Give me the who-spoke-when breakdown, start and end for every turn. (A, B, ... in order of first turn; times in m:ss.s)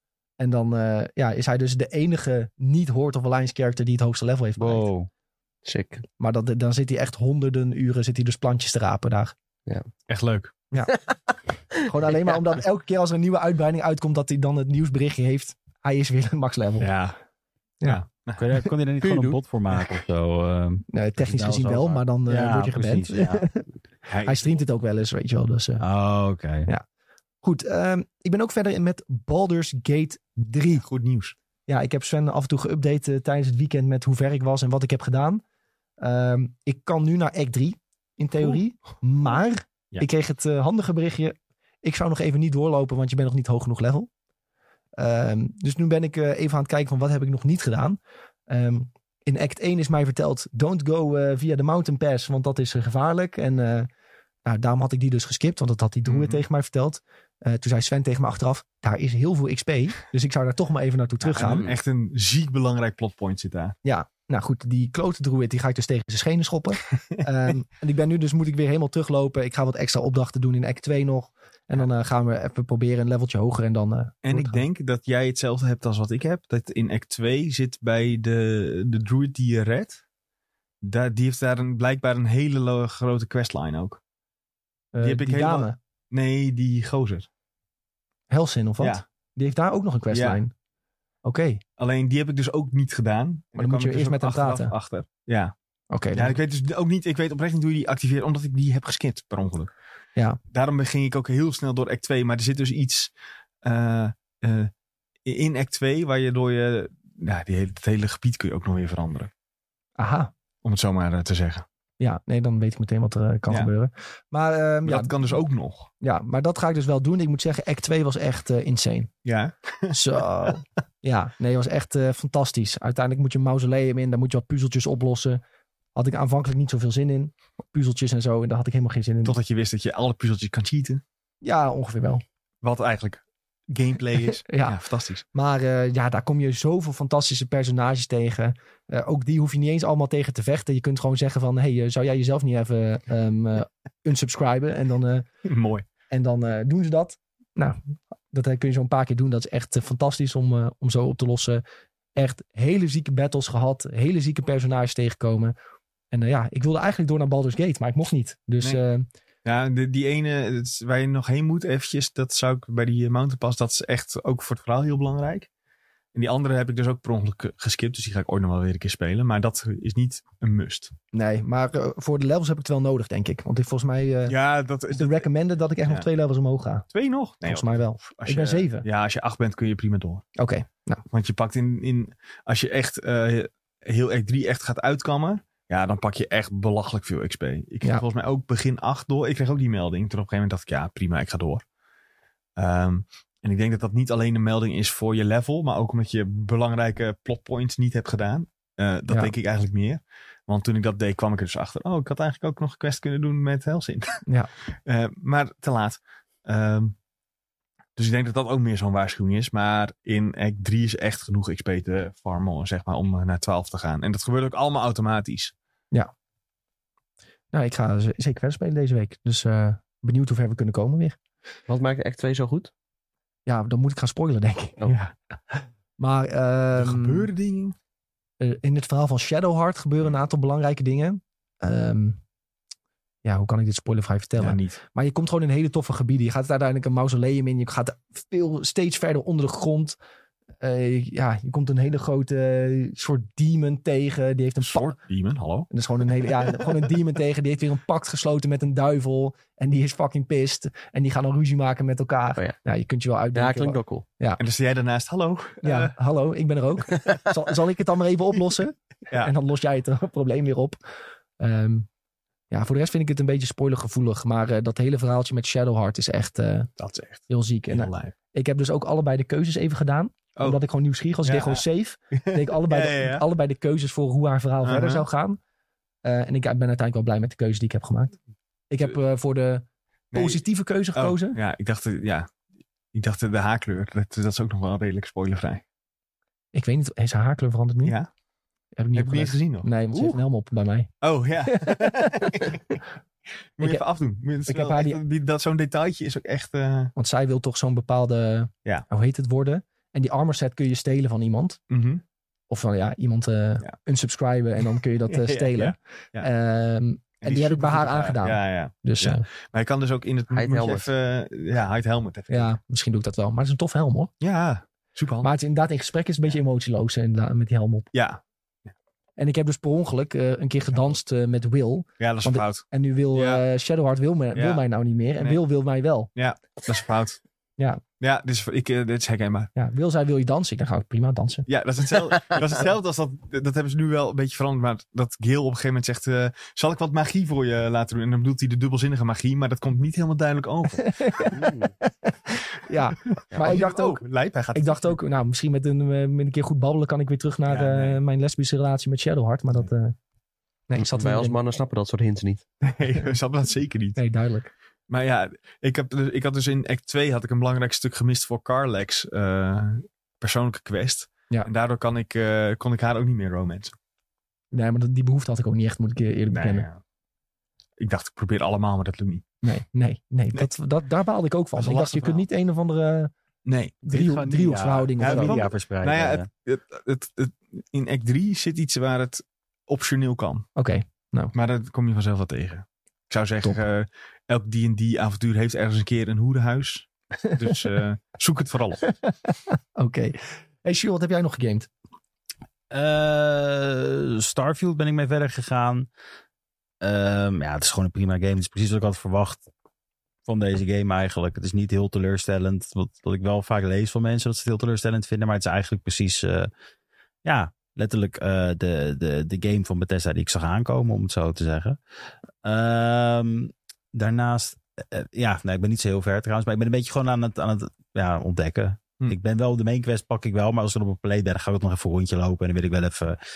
0:00.4-0:04.9 A
0:04.6-0:05.1 B
0:05.6-0:06.0 C
0:06.2-0:09.3 A
0:10.1-0:10.6 D
0:11.8-0:16.9 A
0:16.8-0:17.2 D
0:17.8-0:18.4 D
0:18.4-0:23.5 B
0:19.0-0:19.4 C
0:20.9-0:23.7 A
0:24.1-0:24.5 D
0:24.2-0:25.8 A
0:25.8-0:26.7 B
0:27.4-0:30.8 A
0:30.8-0:31.4 D
0:31.7-0:35.4 A
0:36.0-0:44.1 A
0:45.0-0:53.9 A
0:54.4-1:01.7 A
0:56.0-0:56.4 D
1:01.2-1:03.8 D
1:01.4-1:01.8 C
1:03.8-1:14.6 A
1:14.2-1:20.0 D
1:20.8-1:24.0 D
1:24.9-1:25.8 A
1:25.0-1:27.3 D
1:28.3-1:30.5 A
1:30.1-1:30.4 D
1:31.2-1:31.6 A
1:31.8-1:35.5 D
1:33.6-1:34.7 A
1:35.9-1:36.4 A
1:36.1-1:39.7 D
1:40.5-1:43.1 D
1:43.6-1:44.7 D
1:45.2-1:49.3 D
1:50.0-1:50.3 A
1:50.6-1:51.6 D
1:52.0-1:55.3 A
1:54.9-1:55.9 D
1:56.0-1:59.1 A
1:59.2-2:00.0 D
1:59.9-2:05.4 A
2:06.0-2:09.4 A
2:09.2-2:11.0 D
2:11.4-2:12.2 A
2:12.6-2:15.2 D
2:14.4-2:14.8 A
2:15.3-2:25.3 A
2:25.4-2:25.8 D
2:26.1-2:31.6 A
2:32.2-2:35.6 A
2:36.1-2:39.1 A
2:39.4-2:45.5 D
2:46.1-2:50.9 D
2:51.1-2:54.4 A
2:54.3-2:55.3 D
2:54.9-2:56.9 A
2:56.9-3:00.3 D
2:57.4-2:58.9 A
3:00.4-3:01.0 A
3:01.1-3:11.6 D
3:12.6-3:24.2 D
3:24.8-3:27.0 D
3:28.0-3:35.5 D
3:37.5-3:41.2 A
3:41.7-3:42.7 C
3:43.4-3:44.8 A
3:44.9-3:45.1 D
3:46.0-3:47.3 A
3:46.8-3:47.8 D
3:48.4-3:52.2 A
3:53.2-4:00.0 A
3:54.4-3:54.8 D
4:00.6-4:05.0 A
4:04.6-4:05.7 D
4:05.7-4:14.4 A
4:13.4-4:14.0 C
4:14.4-4:15.9 D
4:15.6-4:20.8 A
4:21.4-4:21.9 A
4:22.5-4:26.7 A
4:26.8-4:28.1 D
4:27.3-4:35.4 A
4:30.4-4:30.6 D
4:31.2-4:31.6 D
4:32.2-4:33.2 D
4:34.6-4:35.0 D
4:36.0-4:38.2 A
4:38.7-4:41.4 A
4:40.1-4:40.4 D
4:41.0-4:42.3 D
4:42.9-4:45.6 D
4:46.5-4:48.0 A
4:47.8-4:48.1 D
4:48.8-4:50.9 A
4:49.0-4:50.2 D
4:51.0-4:52.8 D
4:51.5-4:52.5 A
4:53.6-4:56.9 D
4:54.4-4:55.0 A
4:57.0-5:01.6 A
5:01.7-5:02.0 D
5:02.5-5:09.2 A
5:05.2-5:06.3 D
5:07.2-5:12.5 D
5:10.3-5:10.9 C
5:12.3-5:14.1 A
5:14.2-5:15.3 D
5:15.2-5:17.9 A
5:17.9-5:18.2 D
5:19.2-5:26.1 A
5:22.0-5:23.4 D
5:24.4-5:24.6 D
5:26.1-5:27.2 D
5:28.0-5:29.5 D
5:29.6-5:31.4 A
5:31.5-5:41.2 D
5:40.8-5:44.0 A
5:41.3-5:41.7 C
5:43.3-5:45.0 D
5:44.5-5:50.0 A
5:47.5-5:48.0 D
5:50.7-5:51.4 A
5:50.8-5:52.4 C
5:52.6-5:54.0 D
5:54.0-5:54.5 A
5:54.9-6:03.8 D
6:04.5-6:06.7 A
6:06.3-6:06.8 D
6:07.8-6:09.3 D
6:09.4-6:13.1 A
6:11.6-6:12.2 D
6:13.4-6:13.8 D
6:13.8-6:16.3 B
6:13.8-6:15.5 A
6:15.0-6:20.5 D
6:20.6-6:21.3 A
6:21.3-6:29.0 D
6:29.8-6:31.7 A
6:32.7-6:35.9 B
6:36.8-6:39.4 B
6:40.3-6:46.5 B
6:47.2-6:51.8 B
6:52.4-7:03.2 B